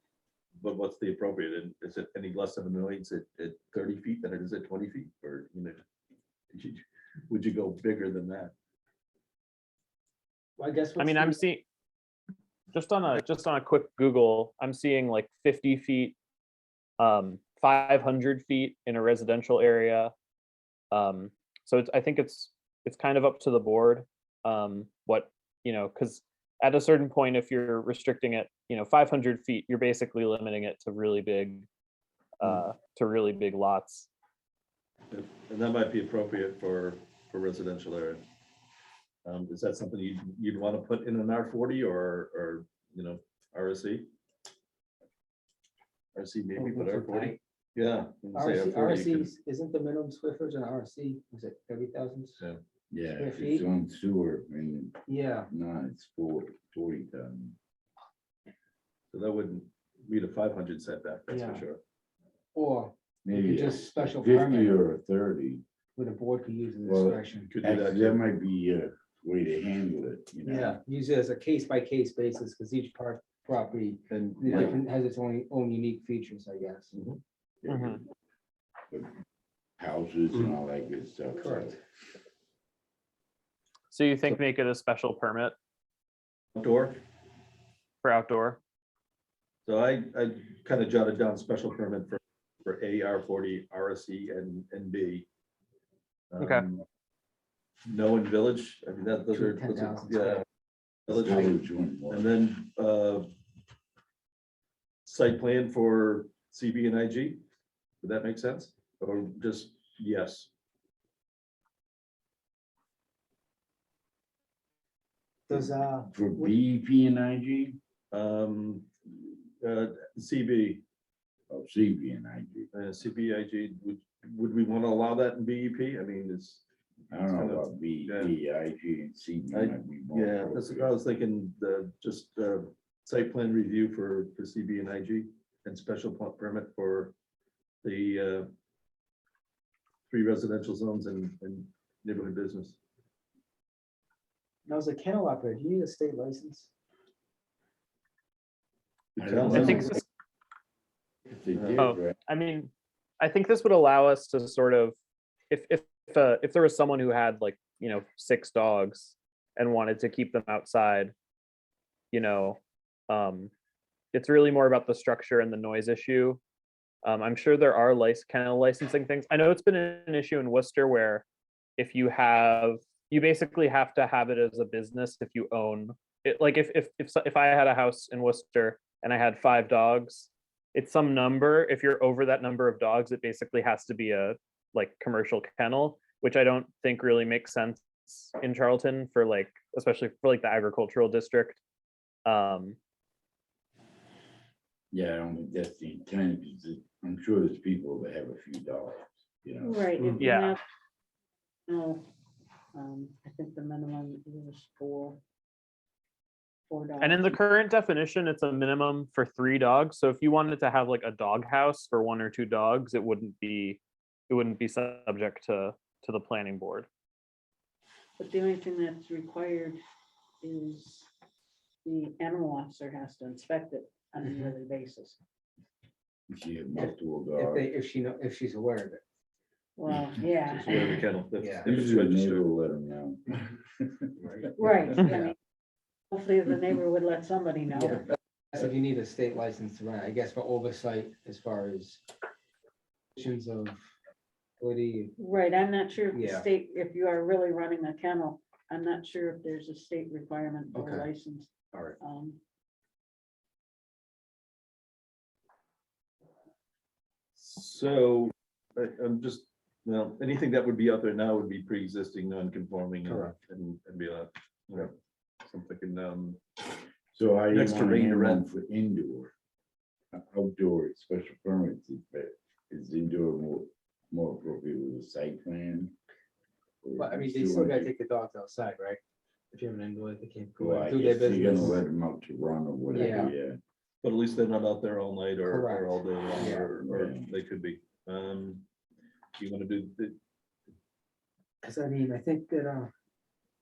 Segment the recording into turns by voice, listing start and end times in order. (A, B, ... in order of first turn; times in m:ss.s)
0:00.6-0:05.8 A
0:06.5-0:08.5 A
0:10.6-0:11.4 B
0:11.0-0:11.7 C
0:12.7-0:16.2 C
0:17.0-0:20.1 C
0:20.9-0:31.7 C
0:32.4-0:34.1 C
0:35.1-0:38.2 A
0:39.2-0:44.1 A
0:46.2-0:49.3 A
0:46.6-0:47.4 B
0:48.3-0:52.4 B
0:52.9-0:57.6 D
0:53.2-0:53.6 B
0:55.1-0:55.5 B
0:59.1-1:01.8 A
1:01.3-1:01.6 B
1:02.6-1:04.8 B
1:03.2-1:05.6 D
1:06.0-1:07.5 B
1:06.8-1:10.8 D
1:07.5-1:08.2 A
1:10.5-1:16.9 B
1:14.1-1:14.8 A
1:14.5-1:14.7 D
1:16.9-1:17.2 A
1:17.7-1:18.0 D
1:17.7-1:18.0 C
1:19.8-1:21.8 D
1:21.4-1:21.8 B
1:23.9-1:25.6 C
1:26.6-1:27.0 A
1:28.0-1:28.6 C
1:29.7-1:35.3 A
1:36.3-1:36.8 A
1:36.4-1:36.7 C
1:37.9-1:40.4 A
1:39.3-1:40.4 B
1:41.1-1:42.3 D
1:41.1-1:43.3 A
1:45.1-1:47.4 A
1:48.0-1:50.5 A
1:55.5-1:56.5 B
1:55.5-1:57.8 D
1:58.1-2:00.8 A
2:01.5-2:02.7 D
2:02.7-2:06.6 A
2:07.1-2:10.9 D
2:07.2-2:08.3 A
2:09.5-2:17.1 A
2:17.8-2:18.5 A
2:20.1-2:22.8 A
2:24.7-2:26.7 B
2:29.2-2:30.0 D
2:29.2-2:29.9 A
2:29.4-2:30.0 B
2:29.5-2:30.0 C
2:31.3-2:32.2 D
2:31.5-2:31.8 A
2:31.8-2:35.0 C
2:35.5-2:41.1 C
2:42.1-2:43.5 C
2:44.1-2:46.4 C
2:47.0-2:51.2 C
2:51.8-3:11.6 C
3:12.2-3:12.8 C
3:14.9-3:19.9 D
3:19.6-3:20.6 E
3:20.2-3:20.5 C
3:21.7-3:22.0 E
3:22.7-3:25.2 E
3:26.7-3:27.4 E
3:27.0-3:36.9 C
3:38.2-3:39.8 E
3:40.4-3:41.1 E
3:41.8-3:45.2 E
3:46.3-3:47.7 D
3:46.8-3:49.0 B
3:49.8-3:51.0 E
3:50.5-3:52.5 A
3:51.4-3:51.7 B
3:51.6-3:54.1 D
3:54.2-3:55.3 B
3:54.6-3:55.4 E
3:56.1-3:58.1 E
3:57.7-4:02.0 B
4:03.2-4:03.9 B
4:04.6-4:05.1 B
4:05.2-4:12.4 E
4:06.1-4:06.5 B
4:10.7-4:11.1 B
4:11.7-4:12.0 B
4:17.4-4:26.4 A
4:23.0-4:23.3 B
4:27.1-4:29.3 D
4:27.5-4:28.4 A
4:30.1-4:36.0 D
4:36.8-4:37.9 D
4:37.0-4:41.8 B
4:40.6-4:43.6 D
4:42.9-4:43.3 B
4:44.0-4:48.6 A
4:45.4-4:46.8 B
4:46.8-4:47.3 D
4:49.4-4:50.2 A
4:51.6-4:52.9 B